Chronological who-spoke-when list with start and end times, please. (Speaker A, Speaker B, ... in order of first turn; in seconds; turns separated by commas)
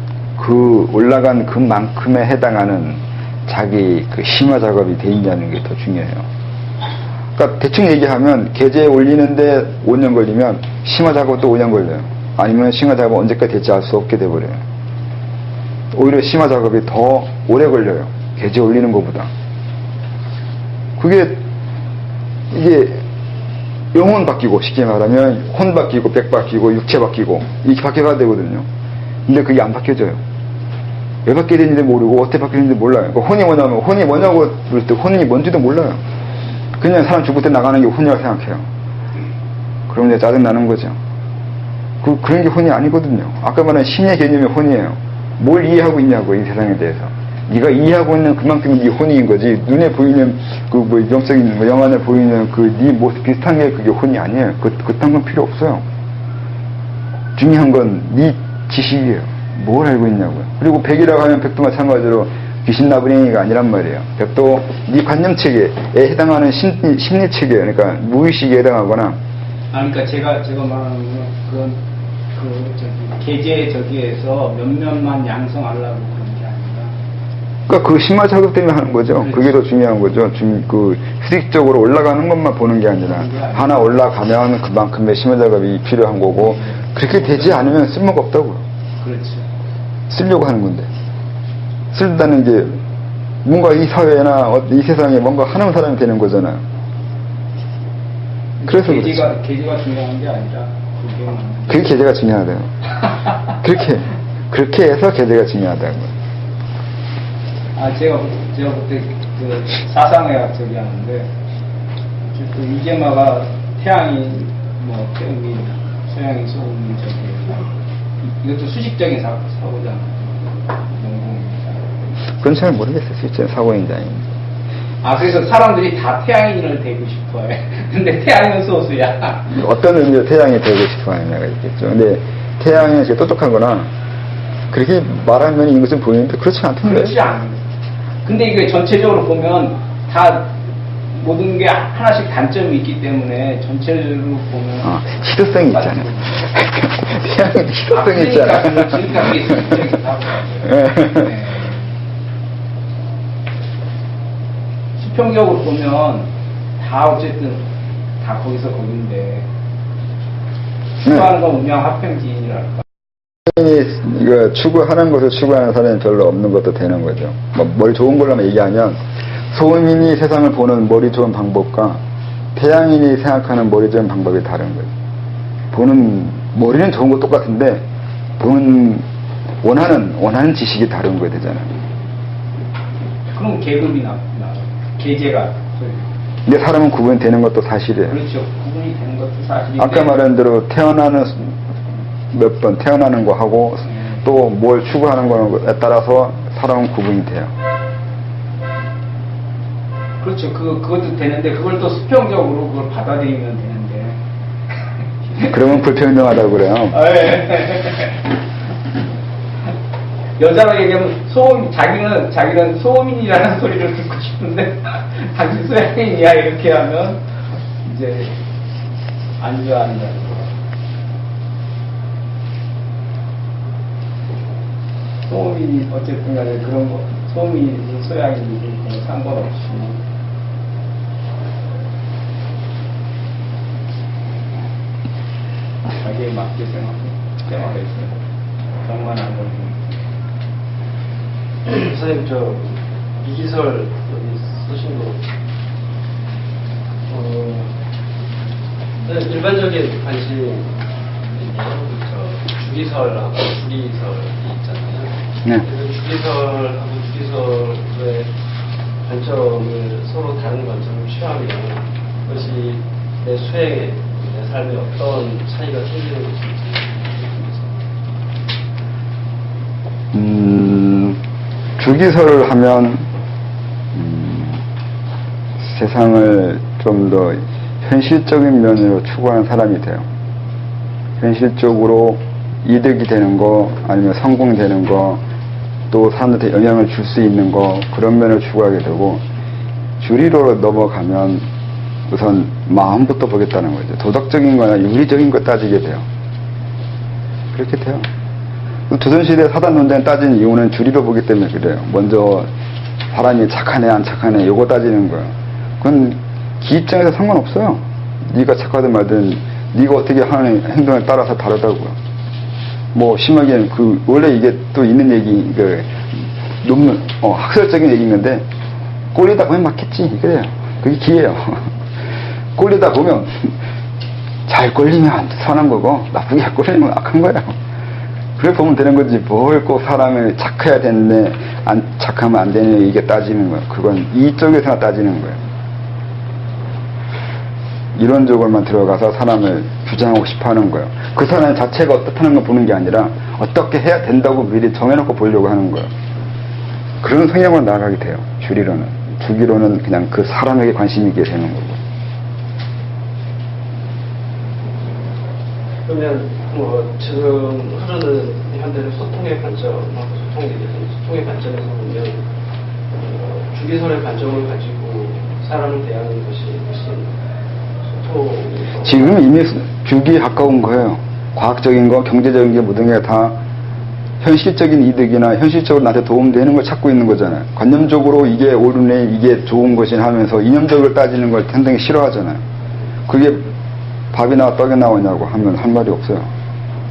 Speaker A: 0.3-6.3, Speaker A: 7.3-14.6, Speaker A: 15.9-19.3, Speaker A: 21.0-21.4, Speaker A: 22.5-23.1, Speaker A: 23.9-28.7, Speaker A: 29.2-30.2, Speaker A: 31.2-36.0, Speaker A: 36.8-38.7, Speaker A: 39.9-41.0, Speaker A: 42.0-55.8, Speaker A: 57.4-69.2, Speaker B: 69.7-71.8, Speaker B: 72.3-76.9, Speaker A: 77.7-88.6, Speaker B: 79.2-79.5, Speaker B: 83.0-83.9, Speaker B: 86.4-87.7, Speaker B: 89.0-89.5, Speaker A: 90.1-90.9, Speaker A: 91.9-92.8, Speaker A: 93.4-96.6, Speaker B: 98.6-102.0, Speaker A: 98.7-99.3, Speaker A: 101.7-102.7, Speaker A: 103.6-106.1, Speaker B: 107.7-111.3, Speaker B: 112.3-121.9, Speaker A: 122.4-124.3, Speaker B: 125.0-129.5, Speaker A: 129.5-133.9, Speaker A: 134.7-137.2, Speaker B: 136.8-137.6, Speaker B: 138.2-140.6, Speaker B: 141.1-146.4, Speaker A: 144.8-149.9, Speaker B: 147.9-151.9, Speaker A: 150.6-151.3, Speaker B: 155.0-157.7, Speaker B: 158.2-159.5, Speaker B: 161.0-162.8, Speaker A: 161.0-161.3, Speaker A: 163.4-169.0, Speaker A: 169.5-172.0, Speaker A: 172.5-174.9, Speaker A: 175.7-177.8, Speaker A: 178.4-179.1, Speaker A: 179.6-181.7, Speaker B: 183.3-186.1, Speaker A: 186.4-188.2, Speaker B: 188.1-190.2, Speaker A: 189.8-191.6, Speaker A: 192.3-197.5, Speaker B: 193.9-194.2, Speaker B: 200.2-204.2, Speaker A: 205.4-207.0, Speaker B: 206.9-208.2, Speaker B: 210.4-217.2, Speaker B: 217.8-218.4, Speaker B: 219.4-220.5, Speaker B: 225.3-230.0, Speaker B: 236.0-238.2, Speaker B: 238.8-240.0, Speaker C: 241.7-245.2, Speaker C: 247.1-247.8, Speaker C: 249.0-250.8, Speaker C: 251.3-258.3, Speaker C: 259.0-267.9, Speaker A: 270.1-271.2, Speaker A: 271.8-273.1, Speaker A: 273.9-274.6, Speaker A: 275.6-280.1, Speaker A: 281.2-285.2, Speaker A: 285.9-289.2, Speaker A: 290.0-291.5, Speaker A: 292.1-296.1, Speaker A: 297.5-298.1, Speaker A: 298.9-302.5, Speaker A: 303.1-312.0, Speaker A: 312.9-318.5, Speaker A: 319.1-321.7, Speaker A: 322.6-323.6, Speaker A: 324.5-327.6, Speaker A: 328.4-335.4, Speaker A: 337.9-345.9, Speaker A: 347.0-351.8, Speaker C: 355.9-362.3, Speaker C: 362.9-367.1, Speaker C: 367.8-369.2, Speaker A: 368.8-373.4, Speaker A: 374.2-382.4, Speaker A: 383.1-383.5, Speaker A: 384.1-386.3